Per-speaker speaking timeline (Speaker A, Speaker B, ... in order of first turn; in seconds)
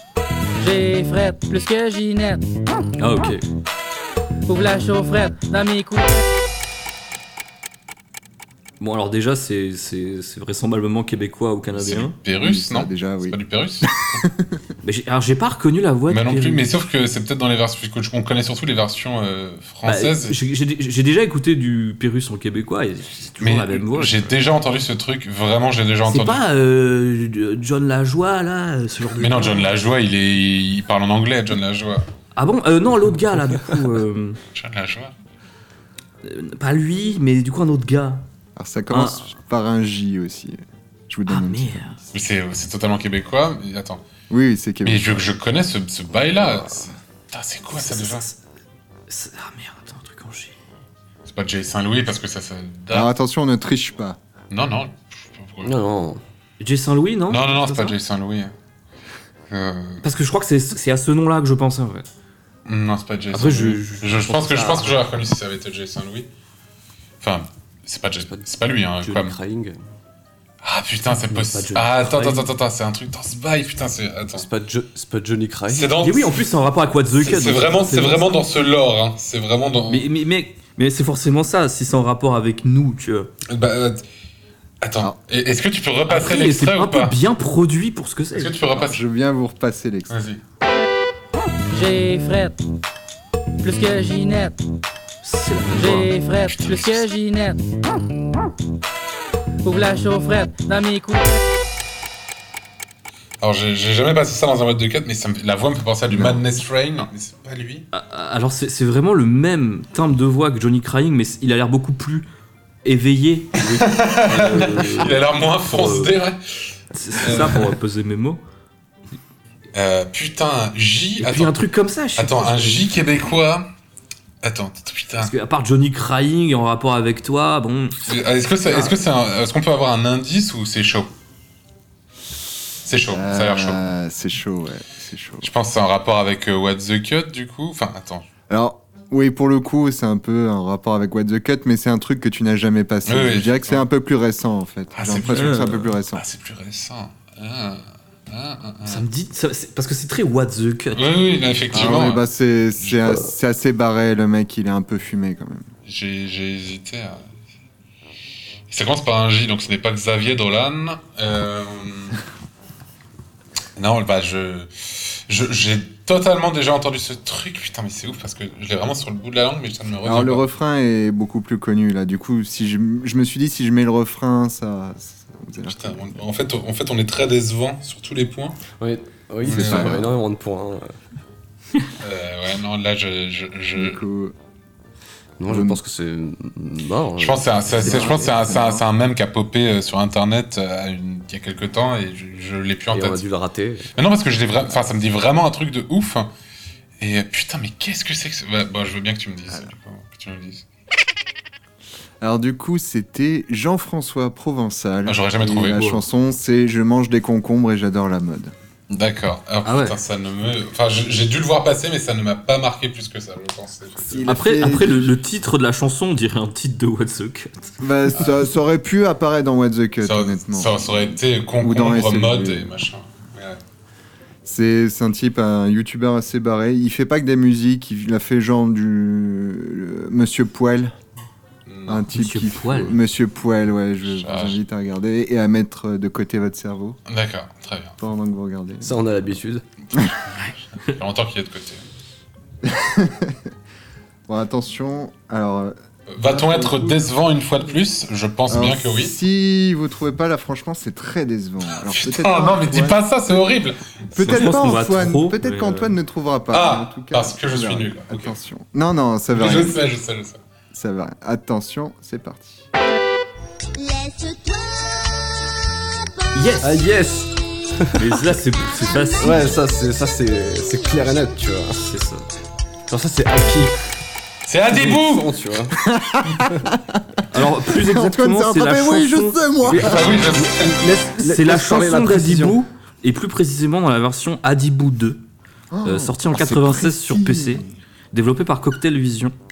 Speaker A: 0.6-2.4, 4.5-6.2, 91.7-92.6, 93.6-94.6, 95.7-97.6, 99.6-101.3
Speaker B: 3.0-3.4, 8.8-12.1, 14.8-16.6, 19.8-24.3, 26.1-29.8, 32.4-34.4, 36.2-38.3, 38.9-39.3, 41.3-42.0, 47.7-48.4, 49.1-50.5, 56.6-57.9, 60.0-62.1, 63.3-64.6, 71.3-72.5, 76.0-78.4, 79.9-83.3, 86.1-88.6, 95.2-96.1, 107.9-112.3, 112.8-113.6, 114.3-116.1, 116.9-118.4, 121.2-122.8, 125.2-128.1, 145.3-145.8, 148.8-151.0, 205.7-206.0, 209.6-209.9, 214.3-217.5, 232.1-233.0, 254.2-255.9, 266.3-266.8, 268.0-269.5, 271.8-272.3, 277.3-279.4, 281.2-285.2, 285.8-289.3
Speaker C: 11.7-14.2, 16.1-20.4, 23.4-26.4, 29.2-32.1, 34.5-35.1, 42.1-44.0, 44.8-48.2, 51.2-53.1, 54.5-55.7, 57.3-58.5, 59.5-60.0, 62.6-66.3, 67.2-69.3, 70.6-74.5, 75.7-76.4, 77.2-80.1, 83.5-84.0, 84.8-87.1, 88.3-89.0, 90.1-90.4, 96.4-97.0, 103.4-107.8, 113.8-117.6, 119.7-121.6, 122.2-123.7, 124.4-125.3, 128.1-131.1, 132.8-133.9, 135.4-138.3, 143.1-143.8, 144.9-149.1, 150.9-152.2, 155.8-157.2, 158.7-162.2, 163.8-170.4, 175.7-178.6, 179.4-180.0, 182.0-184.0, 187.2-193.2, 193.9-196.3, 197.0-200.6, 205.1-205.8, 208.9-214.3, 220.0-223.6, 231.7-232.1, 234.2-234.6, 237.1-237.9, 240.9-241.8, 246.1-249.1, 251.7-254.5, 256.5-258.3, 259.3-260.4, 274.5-275.3, 279.6-280.8
Speaker D: 12.4-14.4, 38.5-42.1, 44.3-45.3, 52.9-54.2, 88.7-90.2, 106.1-106.4, 133.1-135.5, 138.5-146.2, 151.7-155.7, 170.0-176.2, 179.4-180.1, 183.8-184.3, 185.5-185.8, 187.8-188.8, 202.2-208.5, 214.0-215.1, 217.8-222.7, 224.4-230.9, 231.9-237.0, 238.0-239.0, 242.6-243.4, 244.3-247.1, 248.5-253.4, 254.1-259.8, 260.7-262.7, 275.8-277.0, 277.7-280.1, 285.7-287.7
Speaker E: 46.4-46.7, 55.6-56.2, 64.3-65.0, 68.3-69.8, 74.3-76.0, 113.6-115.0, 178.8-180.9, 185.4-188.3, 192.9-193.9, 238.8-239.6, 266.6-268.2, 269.2-271.8, 272.9-273.8, 274.7-275.8, 279.7-282.6